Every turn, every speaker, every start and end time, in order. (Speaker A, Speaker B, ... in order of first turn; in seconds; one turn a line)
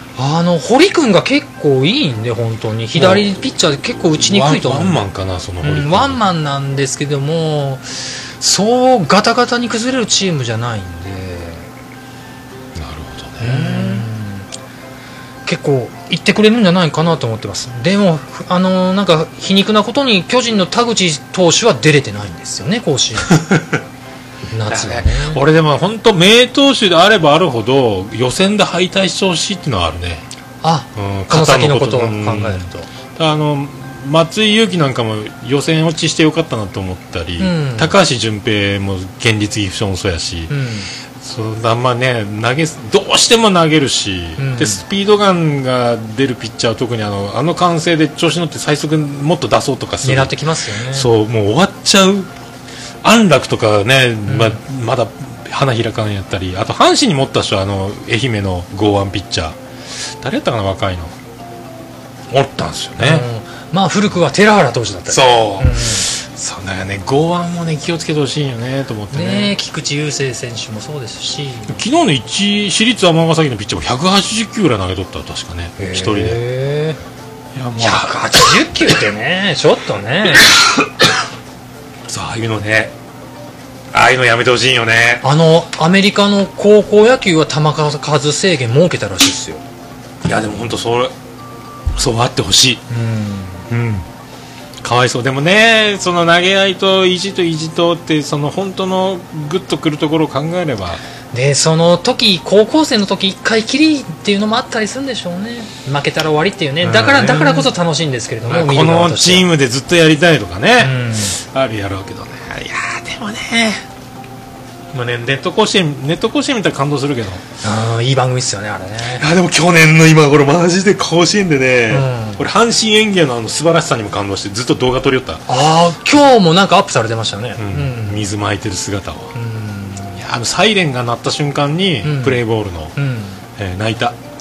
Speaker A: 0.2-5.1
Speaker B: 2.9-3.3
Speaker B: 4.1-6.2
Speaker A: 5.6-11.7
Speaker B: 12.7-14.1
Speaker A: 13.4-14.5
Speaker A: 15.4-23.4
Speaker B: 23.4-23.8
Speaker A: 24.5-25.4
Speaker B: 24.7-30.2
Speaker A: 30.6-32.9
Speaker B: 30.9-40.5
Speaker A: 37.4-37.9
Speaker A: 40.5-40.9
Speaker B: 41.2-50.3
Speaker A: 44.4-44.8
Speaker A: 50.0-51.1
Speaker B: 50.9-52.3
Speaker B: 53.0-61.1
Speaker A: 54.2-54.6
Speaker B: 62.3-63.3
Speaker A: 63.0-66.1
Speaker B: 65.1-69.5
Speaker A: 69.1-71.8
Speaker B: 71.7-76.4
Speaker A: 75.8-77.0
Speaker B: 77.5-78.5
Speaker A: 77.8-80.6
Speaker B: 82.1-82.9
Speaker B: 83.9-85.2
Speaker A: 85.2-89.6
Speaker B: 90.2-91.1
Speaker B: 92.0-92.8
Speaker A: 92.9-93.7
Speaker B: 93.7-94.0
Speaker B: 94.8-101.0
Speaker A: 101.3-109.5
Speaker B: 106.8-107.7
Speaker B: 108.4-113.8
Speaker A: 110.8-111.4
Speaker B: 114.9-117.4
Speaker A: 117.6-119.2
Speaker B: 119.2-125.5
Speaker A: 121.9-122.4
Speaker A: 125.5-128.2
Speaker B: 127.6-129.3
Speaker A: 129.3-130.2
Speaker B: 130.1-132.9
Speaker A: 132.0-132.4
Speaker A: 132.9-133.4
Speaker B: 133.6-134.2